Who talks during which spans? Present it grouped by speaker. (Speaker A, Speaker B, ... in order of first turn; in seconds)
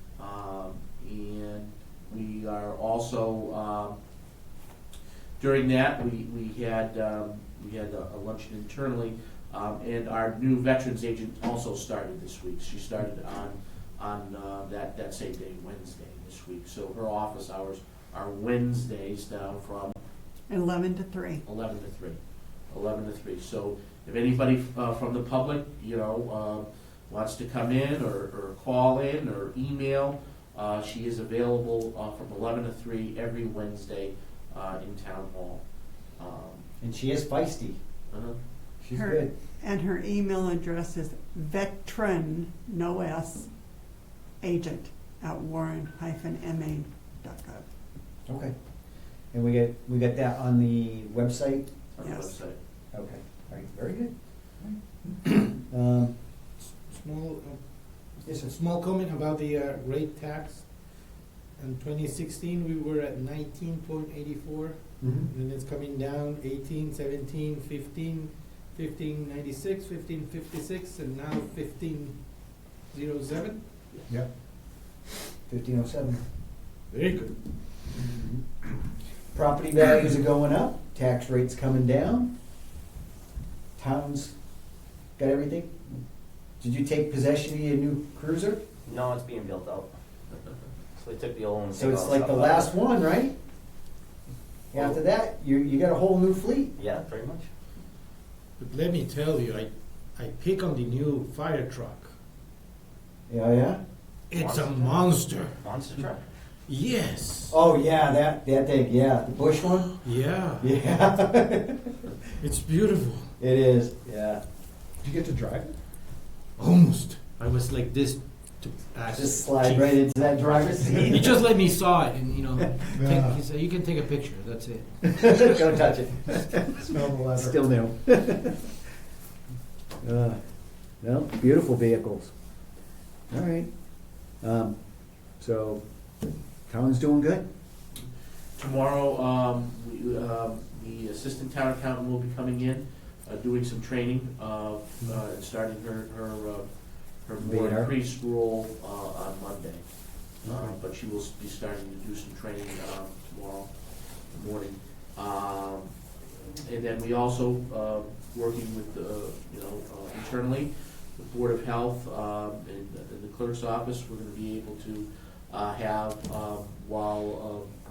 Speaker A: 0.2-4.0, 5.4-20.0, 21.4-35.6, 36.2-36.6, 38.1-38.4, 52.0-52.6, 138.6-146.7, 147.2-149.8, 150.4-153.7, 154.3-155.9, 156.5-167.7
Speaker B: 20.5-21.4, 38.9-43.5, 44.4-47.6, 52.0-52.4
Speaker C: 36.8-37.8, 38.8-39.3, 48.3-48.5, 49.3-51.7, 52.9-56.2, 58.2-58.5, 65.0-65.3, 75.5-76.2, 78.0-78.4, 79.3-82.3, 83.8-84.3, 85.2-86.0, 86.6-88.6, 91.7-93.3, 94.7-96.7, 103.3-103.8, 107.5-110.0, 110.6-112.2, 113.4-114.4, 119.1-121.5, 125.1-128.9, 130.0-130.4, 131.0-132.3, 133.3-133.7, 134.4-134.8, 135.4-135.8, 136.7-137.4, 147.4-147.9, 150.4-150.8
Speaker D: 56.9-60.8, 61.6-74.0, 76.9-77.4, 98.6-102.1, 104.3-105.6, 106.7-107.5, 110.0-110.7, 112.4-113.3, 116.6-120.0, 121.0-125.7
Speaker E: 88.9-89.9, 91.0-92.8, 94.7-95.0, 96.8-97.5, 104.3-106.3
Speaker F: 115.0-115.8, 122.9-123.4, 126.8-127.6